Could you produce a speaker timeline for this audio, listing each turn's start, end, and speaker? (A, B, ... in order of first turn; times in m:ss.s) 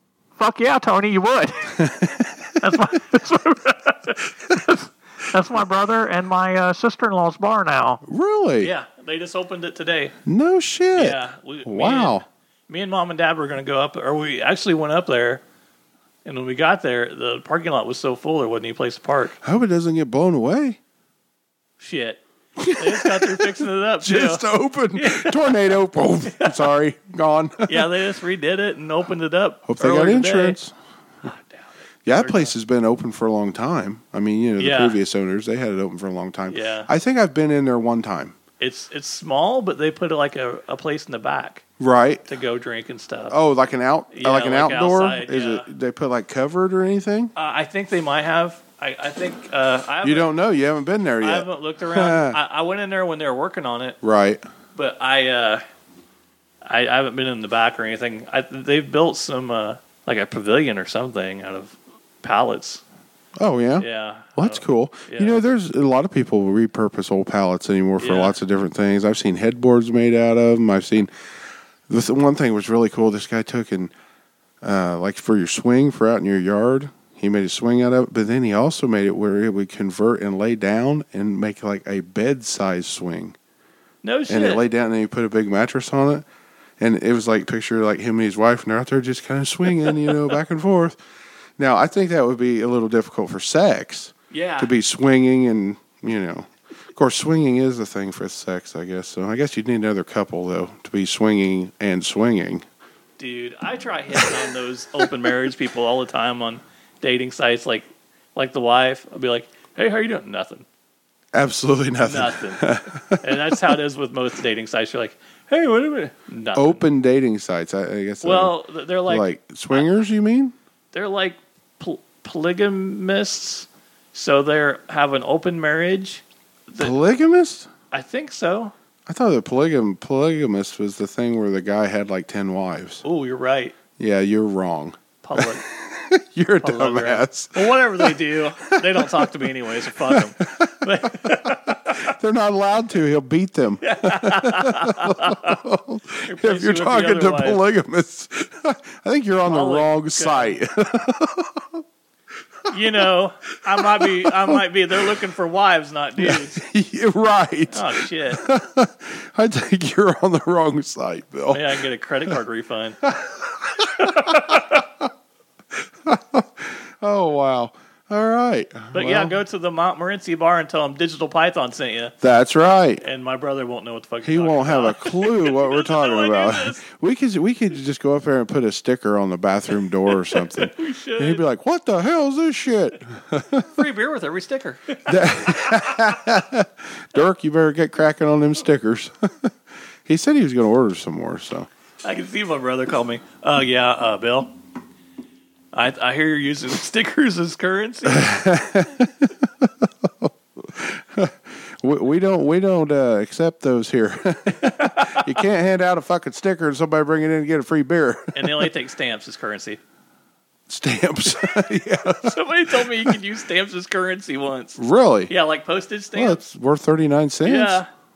0:00.4-0:01.8 A
0:01.7-0:03.0 B
0:02.6-0:08.0 A
0:08.0-0:08.7 B
0:08.6-0:10.1 A
0:10.2-0:12.2 B
0:10.9-0:15.4 A
0:16.2-0:19.4 A
0:19.4-0:20.8 B
0:21.8-0:22.2 A
0:22.6-0:27.9 B
0:22.7-0:25.6 A
0:26.3-0:26.6 A
0:27.7-0:30.6 A
0:29.7-0:30.7 B
0:31.2-0:32.5 A
0:32.0-0:38.3 B
0:34.6-0:35.0 A
0:36.5-0:36.9 A
0:38.6-0:41.6 A
0:41.8-0:42.2 B
0:42.3-0:43.4 A
0:43.3-0:47.3 B
0:44.1-0:45.7 A
0:47.4-0:50.3 A
0:50.0-0:52.4 B
0:51.2-0:54.0 A
0:54.0-0:54.4 B
0:54.7-0:55.6 A
0:56.6-1:02.8 A
1:03.4-1:11.1 B
1:03.8-1:05.4 A
1:08.0-1:08.4 A
1:11.9-1:13.9 B
1:14.6-1:23.4 B
1:24.0-1:24.6 A
1:24.3-1:26.2 B
1:26.8-1:31.0 B
1:31.6-1:42.6 B
1:34.3-1:34.7 A
1:43.2-1:50.6 A
1:44.1-1:44.4 B
1:51.3-1:53.6 B
1:52.0-1:52.6 A
1:53.2-1:56.8 A
1:56.5-2:00.5 B
1:58.2-1:59.9 A
2:00.9-2:06.9 A
2:06.8-2:07.7 B
2:07.9-2:08.7 A
2:09.1-2:13.0 B
2:13.0-2:13.7 A
2:14.0-2:19.3 B
2:15.2-2:15.6 A
2:16.6-2:22.1 A
2:20.1-2:31.8 B
2:23.8-2:25.6 A
2:26.2-2:27.6 A
2:29.5-2:30.6 A
2:32.7-2:36.6 A
2:33.8-2:34.6 B
2:36.2-2:41.8 B
2:37.7-2:38.4 A
2:41.5-2:43.0 A
2:43.0-2:45.0 B
2:44.0-2:44.8 A
2:46.0-2:49.4 B
2:48.9-2:52.1 A
2:52.2-2:53.0 B
2:53.0-2:56.8 A
2:54.2-3:03.7 B
3:00.1-3:01.4 A
3:03.7-3:06.0 A
3:05.0-3:09.5 B
3:10.0-3:11.7 B
3:12.0-3:14.5 A
3:15.7-3:18.3 A
3:18.1-3:28.7 B
3:24.6-3:25.3 A
3:28.3-3:29.8 A
3:30.7-3:33.2 B
3:32.2-3:36.5 A
3:34.8-3:35.3 B
3:36.1-3:37.8 B
3:37.4-3:37.9 A